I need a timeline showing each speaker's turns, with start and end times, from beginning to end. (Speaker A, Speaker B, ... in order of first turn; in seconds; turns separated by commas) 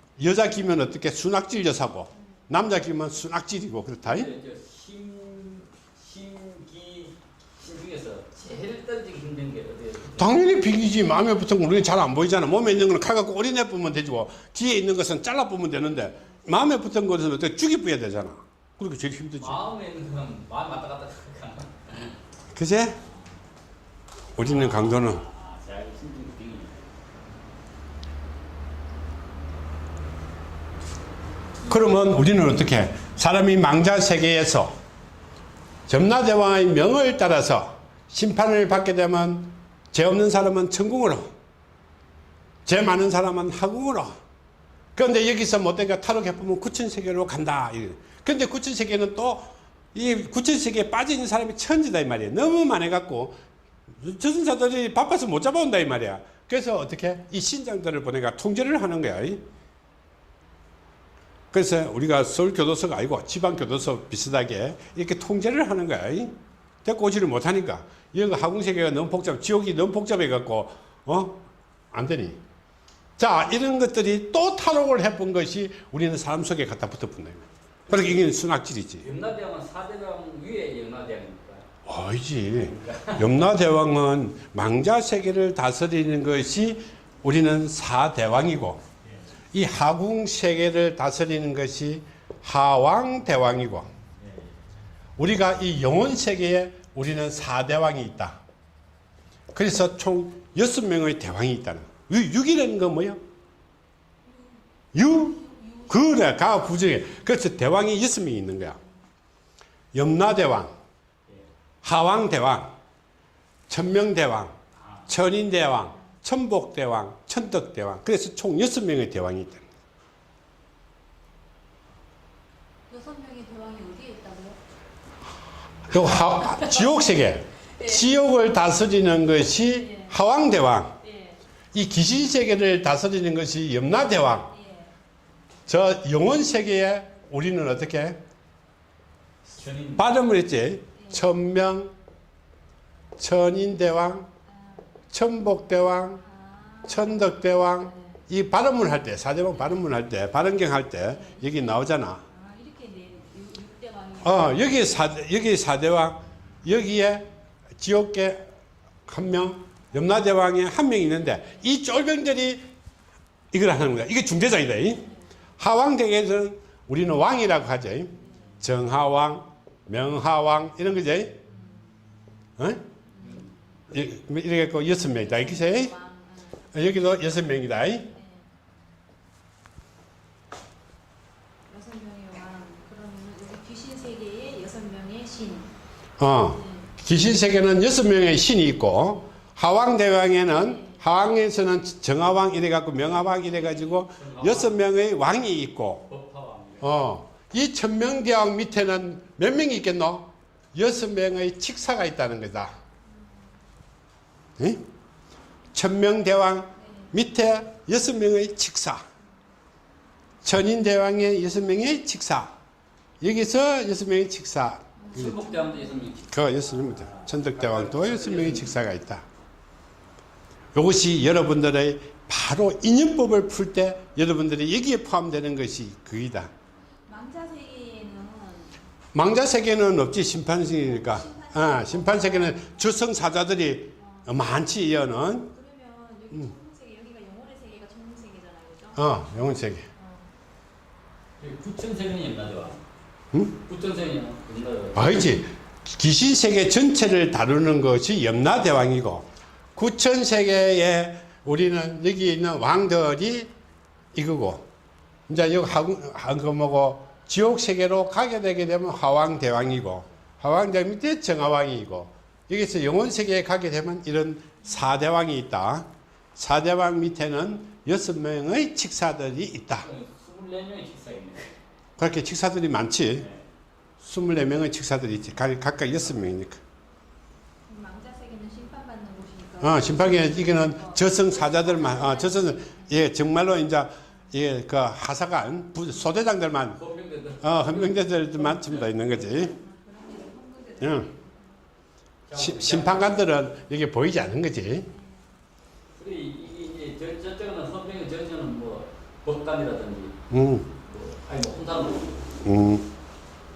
Speaker A: 0.2-4.3, Speaker B: 4.0-10.4, Speaker A: 10.1-19.6, Speaker B: 19.4-22.2, Speaker A: 22.5-23.0, Speaker A: 24.4-25.2, Speaker B: 24.4-26.9, Speaker A: 31.7-34.8, Speaker A: 35.9-41.3, Speaker A: 42.7-44.2, Speaker A: 45.0-53.4, Speaker A: 54.0-59.4, Speaker A: 61.5-72.4, Speaker A: 73.2-79.1, Speaker B: 77.9-78.3, Speaker B: 79.0-81.6, Speaker A: 81.9-88.8, Speaker B: 82.6-83.3, Speaker A: 89.5-93.9, Speaker A: 95.2-98.4, Speaker A: 99.5-103.2, Speaker A: 104.9-108.8, Speaker A: 109.9-110.8, Speaker A: 111.8-112.8, Speaker A: 113.7-114.5, Speaker A: 115.1-119.6, Speaker C: 122.9-124.6, Speaker A: 125.9-131.0, Speaker C: 131.1-131.4, Speaker A: 131.7-134.5, Speaker C: 134.6-134.9, Speaker A: 135.7-138.2, Speaker B: 139.4-140.0, Speaker A: 140.0-141.9, Speaker A: 143.2-144.3, Speaker A: 145.1-146.2, Speaker C: 146.3-147.1, Speaker A: 146.8-152.2, Speaker C: 152.3-154.4, Speaker A: 154.2-158.5, Speaker A: 159.1-162.7, Speaker A: 163.5-171.4, Speaker C: 168.2-168.5, Speaker A: 172.6-172.8, Speaker B: 173.2-173.5, Speaker A: 173.9-176.0, Speaker C: 175.3-176.6, Speaker A: 176.7-178.1, Speaker C: 178.2-178.4, Speaker C: 181.7-185.7, Speaker A: 186.2-196.1, Speaker B: 194.1-194.8, Speaker B: 196.1-197.0, Speaker A: 196.8-202.7, Speaker A: 204.6-204.8, Speaker A: 205.7-209.0, Speaker A: 210.4-212.5, Speaker A: 213.2-215.4, Speaker B: 215.1-218.7, Speaker C: 215.4-215.9, Speaker A: 216.3-219.2, Speaker A: 220.7-226.5, Speaker C: 227.1-228.7, Speaker A: 229.1-235.6, Speaker C: 231.1-232.6, Speaker C: 235.6-239.1, Speaker A: 239.0-239.8, Speaker B: 241.4-242.8, Speaker A: 243.3-243.6, Speaker B: 243.7-245.4, Speaker A: 245.0-253.5, Speaker A: 254.1-254.7, Speaker A: 255.3-269.9, Speaker B: 269.8-271.5, Speaker A: 272.0-273.3, Speaker B: 273.2-273.4, Speaker A: 274.0-276.6, Speaker C: 277.7-282.4, Speaker A: 279.6-286.8, Speaker B: 286.8-289.0, Speaker A: 287.4-289.6, Speaker C: 289.4-291.3, Speaker A: 290.8-291.1, Speaker B: 292.3-293.4, Speaker A: 292.4-294.9, Speaker B: 296.0-300.1, Speaker A: 300.3-300.7, Speaker B: 300.8-302.2, Speaker A: 302.4-302.9